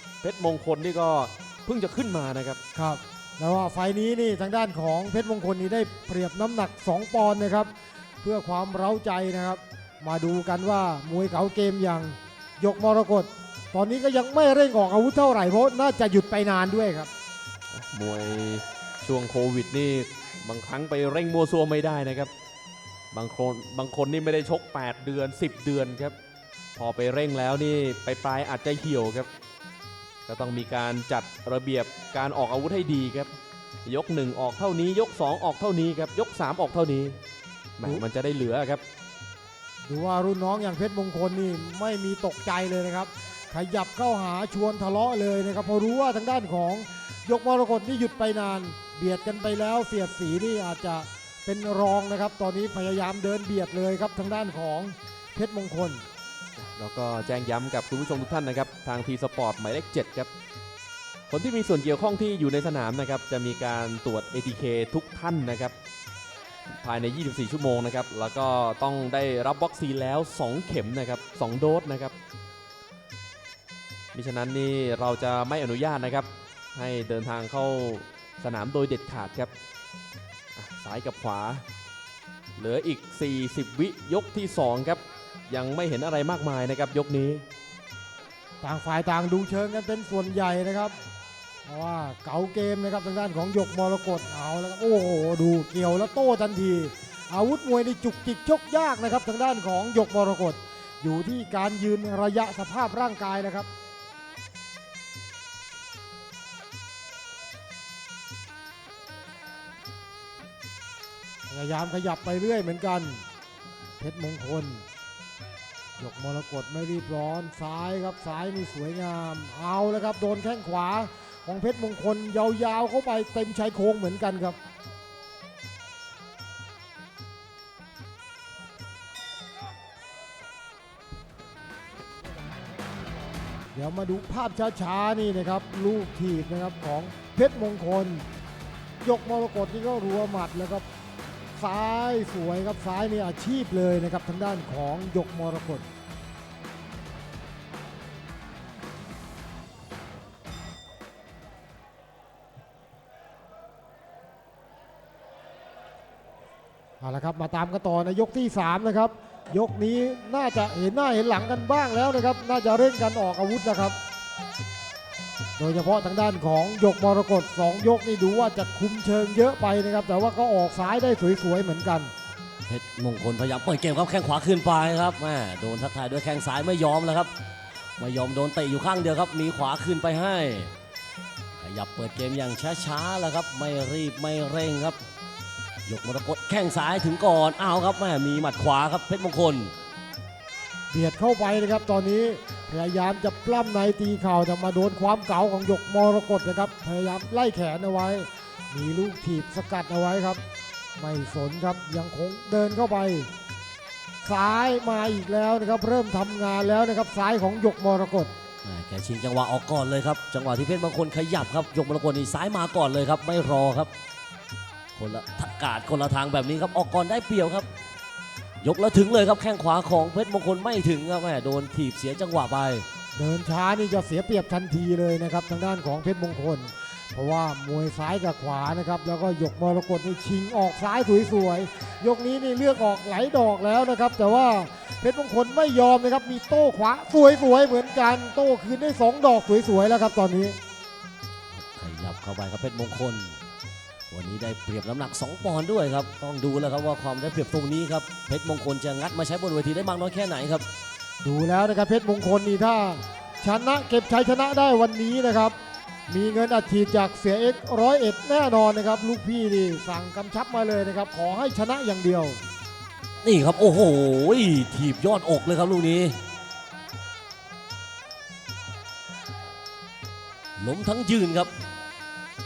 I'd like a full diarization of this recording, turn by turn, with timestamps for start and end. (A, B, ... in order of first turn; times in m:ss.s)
0:00.2-0:02.6 A
0:02.8-0:07.7 B
0:08.2-0:17.1 B
0:17.9-0:22.3 A
0:23.1-0:26.1 A
0:26.8-0:29.3 A
0:30.3-0:33.3 A
0:33.8-0:37.2 A
0:37.8-0:38.8 A
0:39.9-0:56.0 B
0:56.6-1:00.3 A
1:01.3-1:05.7 A
1:06.8-1:12.1 A
1:14.1-1:19.5 A
1:20.6-1:21.6 A
1:22.6-1:27.4 A
1:28.6-1:30.9 B
1:31.7-1:43.7 B
1:51.5-1:53.2 B
1:54.0-1:54.8 B
1:56.0-2:04.6 B
2:13.7-2:18.2 B
2:19.0-2:20.8 B
2:21.6-2:25.9 B
2:37.0-2:44.0 B
2:45.6-2:52.1 B
2:52.7-2:57.3 C
2:58.0-3:00.7 C
3:01.6-3:05.0 C
3:05.8-3:09.7 C
3:10.9-3:20.4 B
3:21.0-3:23.3 B
3:24.2-3:28.3 B
3:28.6-3:33.9 C
3:35.0-3:37.7 C
3:38.6-3:42.8 C
3:43.2-4:00.6 B
4:01.5-4:03.4 C
4:04.1-4:10.6 C
4:11.2-4:15.6 B
4:16.1-4:22.4 B
4:23.2-4:26.2 C
4:30.6-4:31.5 C